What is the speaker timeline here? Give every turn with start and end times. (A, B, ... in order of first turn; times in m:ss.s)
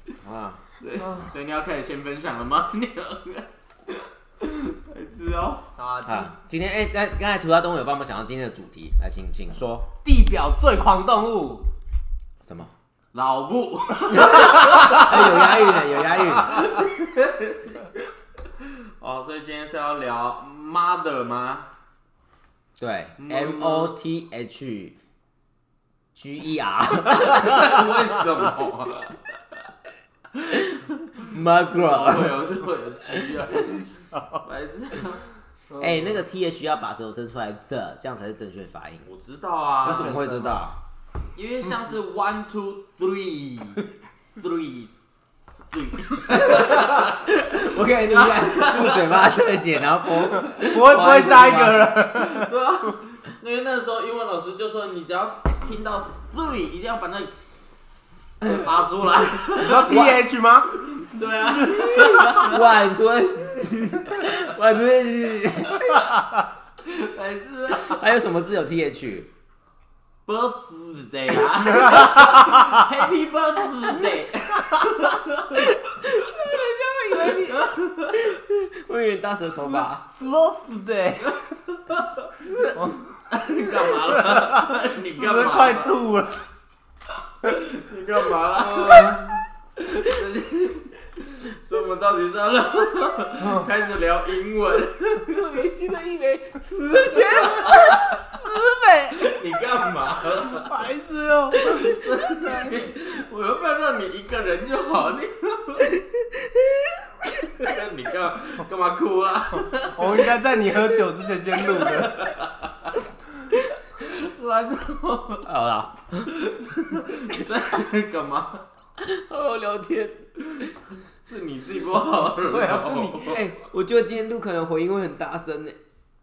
0:00.2-0:00.6 A
0:00.8-0:05.6 B
0:01.0-0:01.3 C
0:05.8-0:06.3 C
0:06.1-0:09.9 A
0:10.0-0:11.6 C
0:12.4-0:12.7 A
0:13.1-0:18.0 B
0:14.1-0:16.7 A
0:18.6-0:21.7 B
0:22.8-0:25.0 A
0:23.2-0:24.0 B
0:26.1-0:27.8 A
0:27.2-0:29.2 B
0:30.5-0:32.4 A
0:31.9-0:35.2 B
0:35.7-0:36.2 C
0:35.8-0:39.0 A
0:39.0-0:40.2 B
0:39.8-0:40.8 A
0:39.9-0:40.6 C
0:41.3-0:43.8 B
0:44.4-0:44.9 B
0:45.7-0:49.4 B
0:46.4-0:52.0 A
0:50.3-0:52.5 C
0:52.1-0:57.3 B
0:58.4-1:00.2 B
0:59.6-1:00.7 C
1:00.8-1:02.6 B
1:01.6-1:06.2 A
1:06.8-1:08.0 B
1:07.8-1:09.3 A
1:10.2-1:15.7 B
1:15.5-1:20.0 A
1:17.3-1:18.2 B
1:19.7-1:21.5 C
1:21.8-1:22.2 B
1:22.5-1:22.9 A
1:23.3-1:25.9 B
1:24.1-1:24.5 C
1:25.1-1:26.4 C
1:27.4-1:35.5 B
1:35.2-1:39.3 A
1:37.2-1:38.0 B
1:39.1-1:40.7 B
1:40.5-1:41.9 C
1:41.6-1:45.9 B
1:42.2-1:42.5 A
1:45.9-1:47.6 A
1:47.6-1:50.3 B
1:49.9-1:52.3 C
1:51.6-1:52.9 B
1:54.0-1:55.5 B
1:55.4-1:56.3 A
1:56.3-1:58.6 B
1:59.0-2:00.7 A
2:01.2-2:03.4 B
2:02.4-2:03.4 C
2:03.2-2:05.8 A